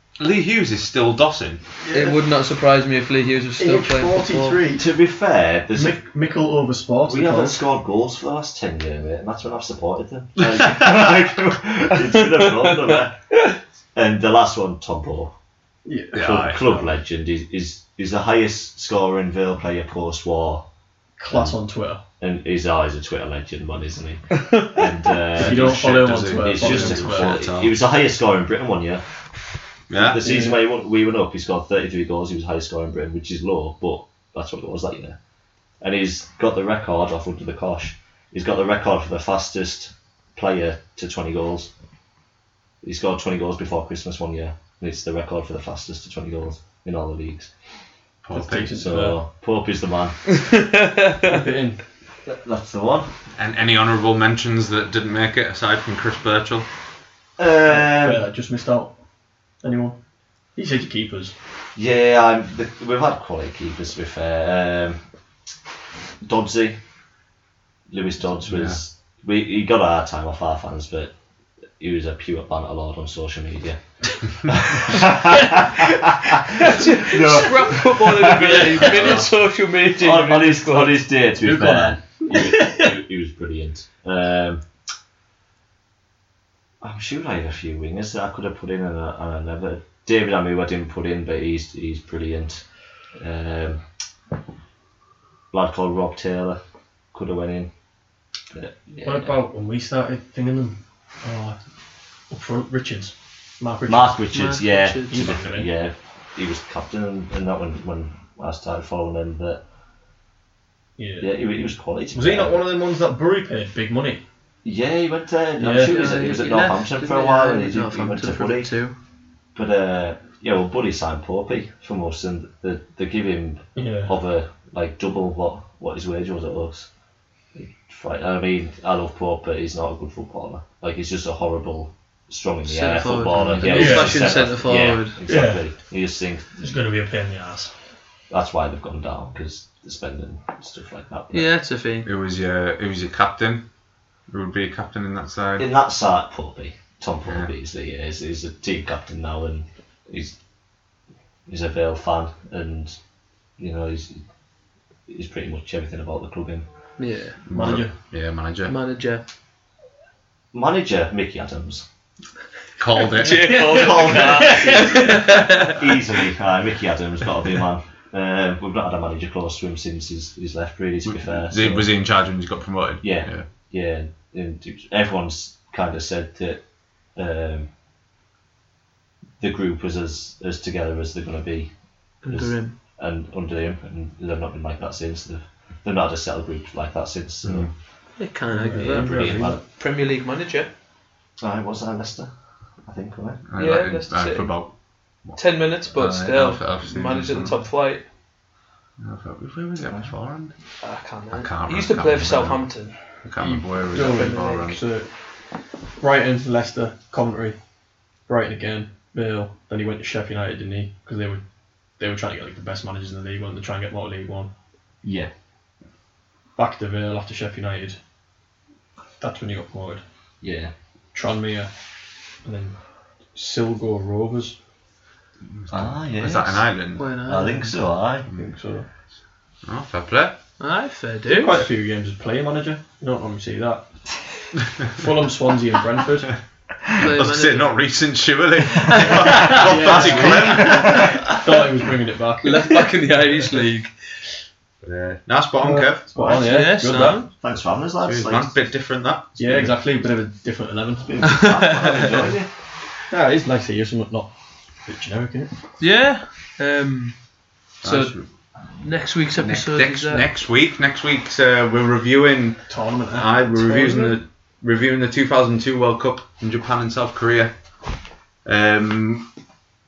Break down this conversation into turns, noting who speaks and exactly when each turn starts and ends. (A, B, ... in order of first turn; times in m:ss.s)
0:00.2-0:01.6 A
0:01.8-0:02.2 B
0:01.9-0:04.6 C
0:03.6-0:04.8 B
0:04.7-0:06.0 D
0:05.7-0:07.6 B
0:07.0-0:13.4 D
0:12.3-0:13.5 C
0:13.9-0:15.3 D
0:15.8-0:16.4 B
0:16.1-0:16.6 A
0:16.1-0:20.6 D
0:21.2-0:22.0 B
0:21.3-0:21.6 D
0:22.2-0:29.0 D
0:25.3-0:27.4 B
0:25.3-0:27.7 A
0:29.9-0:30.2 A
0:29.9-0:35.2 D
0:30.2-0:30.6 B
0:35.8-0:41.7 D
0:42.8-0:47.5 D
0:48.2-0:48.8 A
0:48.3-0:49.2 B
0:48.6-0:50.2 D
0:50.6-0:51.3 C
0:51.2-0:51.8 B
0:52.3-0:53.1 D
0:53.4-0:56.6 A
0:57.4-0:58.2 D
0:57.7-0:58.9 B
0:59.6-1:00.0 B
1:00.6-1:01.3 B
1:01.8-1:05.0 D
1:06.2-1:06.8 D
1:07.9-1:11.1 D
1:08.5-1:08.8 A
1:11.8-1:19.3 D
1:16.6-1:21.1 C
1:19.9-1:24.6 D
1:21.4-1:22.5 B
1:26.8-1:33.8 D
1:35.5-1:36.6 D
1:37.1-1:37.7 D
1:38.5-1:39.4 D
1:39.0-1:41.6 B
1:42.3-1:44.2 B
1:43.8-1:49.6 D
1:44.3-1:45.3 C
1:45.1-1:45.7 B
1:51.0-1:51.3 B
1:51.2-1:52.6 D
1:52.1-1:54.2 B
1:54.6-1:58.7 D
1:55.6-1:56.0 B
1:55.7-1:58.9 C
1:59.5-2:06.9 D
2:03.7-2:04.2 B
2:07.5-2:16.5 D
2:12.6-2:15.2 C
2:13.3-2:13.8 A
2:13.7-2:14.3 B
2:15.3-2:15.6 B
2:16.6-2:17.7 B
2:18.3-2:21.5 D
2:21.3-2:22.1 C
2:22.0-2:23.6 A
2:24.3-2:25.7 A
2:25.6-2:30.4 D
2:31.5-2:33.0 D
2:33.6-2:34.2 D
2:35.1-2:36.7 D
2:37.0-2:37.4 C
2:37.5-2:38.7 A
2:37.5-2:37.9 B
2:38.6-2:39.2 C
2:40.5-2:41.8 D
2:42.8-2:43.7 A
2:43.1-2:45.8 C
2:43.5-2:44.9 B
2:43.5-2:51.9 D
2:51.0-2:53.5 A
2:53.0-2:56.6 D
2:57.1-2:57.7 D
2:59.4-3:01.7 D
3:02.2-3:02.7 C
3:02.3-3:07.7 D
3:07.4-3:07.7 A
3:08.2-3:10.7 C
3:08.5-3:09.3 B
3:08.8-3:09.6 D
3:11.4-3:12.3 D
3:12.8-3:13.4 D
3:13.5-3:17.6 A
3:13.6-3:14.6 C
3:15.4-3:18.0 C
3:19.0-3:20.5 A
3:19.8-3:20.1 D
3:20.8-3:23.0 C
3:21.3-3:24.8 A
3:23.4-3:25.1 B
3:26.0-3:27.6 B
3:28.3-3:31.4 B
3:32.0-3:34.5 B
3:35.0-3:35.3 D
3:36.6-3:38.0 B
3:39.2-3:40.0 B
3:40.4-3:40.7 D
3:41.1-3:41.7 B
3:42.4-3:42.8 B
3:43.3-3:44.6 B
3:45.5-3:47.1 A
3:45.7-3:48.3 D
3:47.0-3:47.8 C
3:48.4-3:48.9 B
3:49.6-3:50.4 A
3:50.6-3:51.6 C
3:51.3-3:53.8 B
3:54.8-3:56.4 B
3:56.9-4:01.4 A
3:57.0-3:57.8 C
3:58.8-3:59.6 C
3:59.4-4:02.9 B
3:59.5-4:01.3 D
4:02.4-4:03.9 C
4:04.8-4:06.7 A
4:05.6-4:07.2 B
4:06.3-4:07.3 C
4:07.0-4:08.6 D
4:08.0-4:09.7 A
4:09.4-4:11.2 B
4:09.4-4:09.7 D
4:11.0-4:12.5 D
4:11.3-4:12.0 C
4:13.1-4:14.3 B
4:14.8-4:15.5 B
4:15.8-4:17.2 C
4:17.8-4:18.3 A
4:17.8-4:20.3 C
4:19.4-4:27.6 A
4:22.7-4:23.3 B
4:23.5-4:24.2 C
4:28.4-4:29.3 A